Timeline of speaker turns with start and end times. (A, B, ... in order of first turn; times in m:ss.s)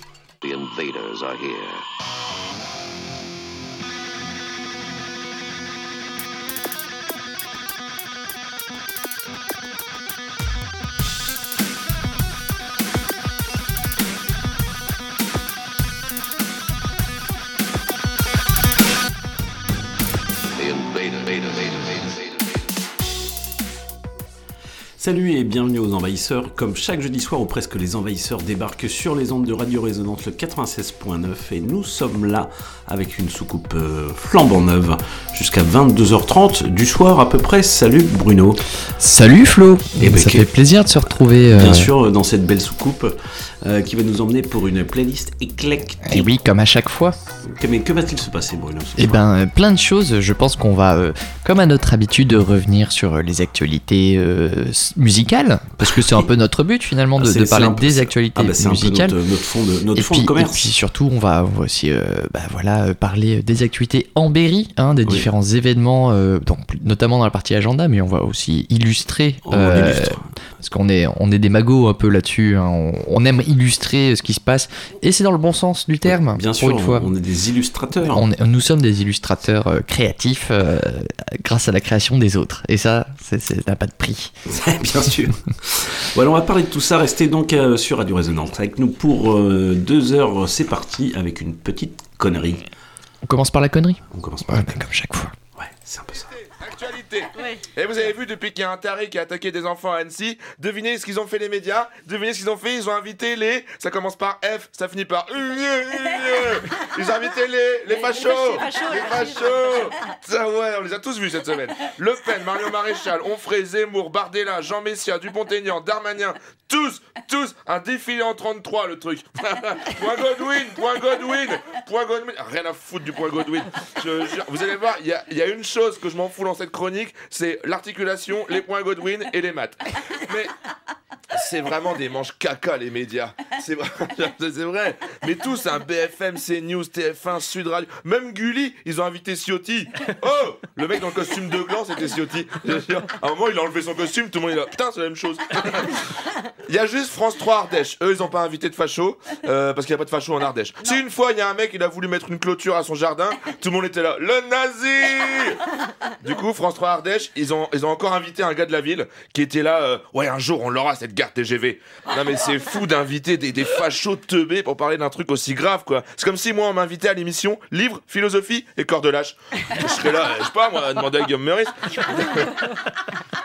0:00.4-0:01.8 A
0:20.5-0:22.6 A
0:25.0-0:38.6 B
0:39.0-0:41.9 C
0:40.0-0:40.5 B
0:41.6-0:46.3 B
0:46.0-0:47.2 C
0:47.4-0:49.2 B
0:49.0-0:59.2 C
0:55.8-0:56.3 B
0:57.2-1:00.6 B
0:59.9-1:17.1 C
1:09.4-1:10.3 B
1:16.0-1:18.2 B
1:18.1-1:24.3 C
1:24.5-1:32.6 B
1:33.2-1:35.3 C
1:34.1-1:34.8 B
1:35.6-1:36.3 B
1:36.6-2:10.5 D
2:11.3-2:26.0 D
2:26.7-2:35.6 D
2:36.2-2:52.5 D